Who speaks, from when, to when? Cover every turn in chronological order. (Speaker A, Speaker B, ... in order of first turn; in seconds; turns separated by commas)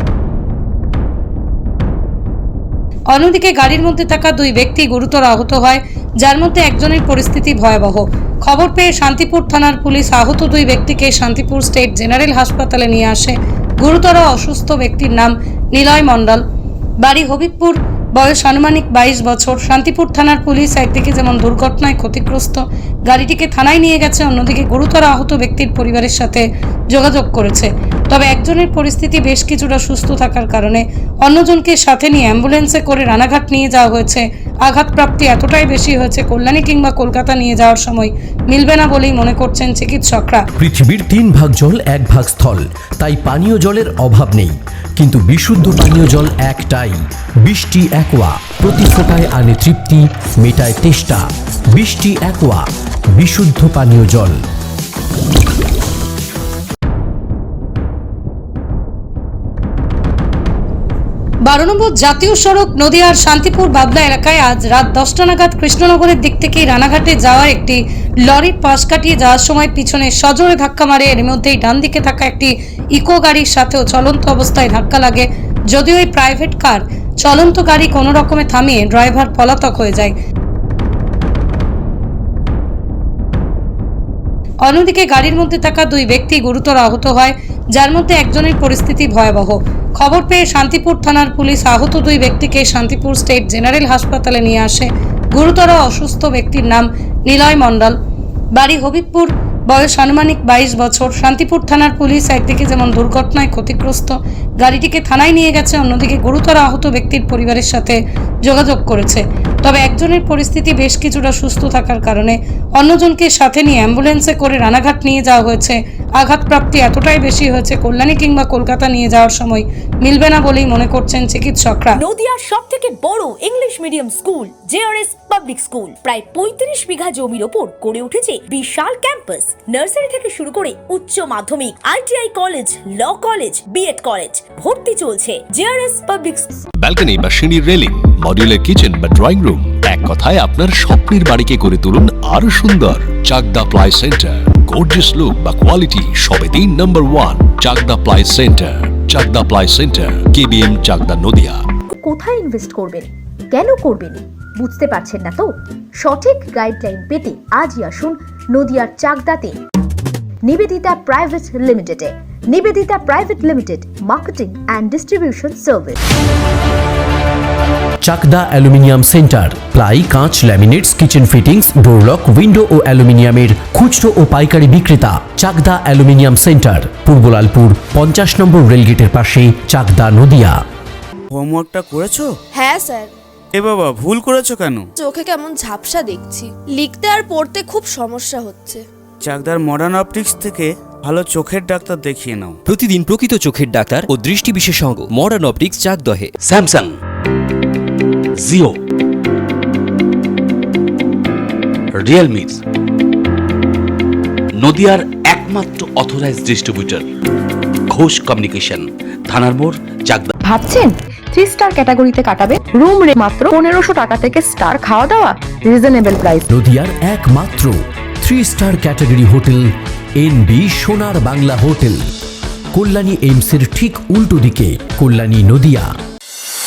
Speaker A: 3.1-16.4, Speaker A: 17.0-40.5, Speaker B: 40.6-54.4, Speaker A: 61.5-80.2, Speaker A: 84.6-98.0, Speaker A: 98.5-122.0, Speaker C: 122.0-136.5, Speaker D: 136.8-151.6, Speaker E: 151.9-159.6, Speaker E: 160.4-166.0, Speaker B: 168.0-180.6, Speaker F: 181.3-182.3, Speaker G: 182.5-183.1, Speaker F: 183.6-184.9, Speaker G: 185.0-188.8, Speaker F: 189.2-192.6, Speaker H: 192.7-196.3, Speaker I: 196.4-197.0, Speaker I: 198.4-198.8, Speaker I: 202.0-202.6, Speaker I: 204.6-207.1, Speaker I: 207.9-210.3, Speaker J: 210.4-216.5, Speaker B: 216.5-222.0, Speaker B: 222.7-225.9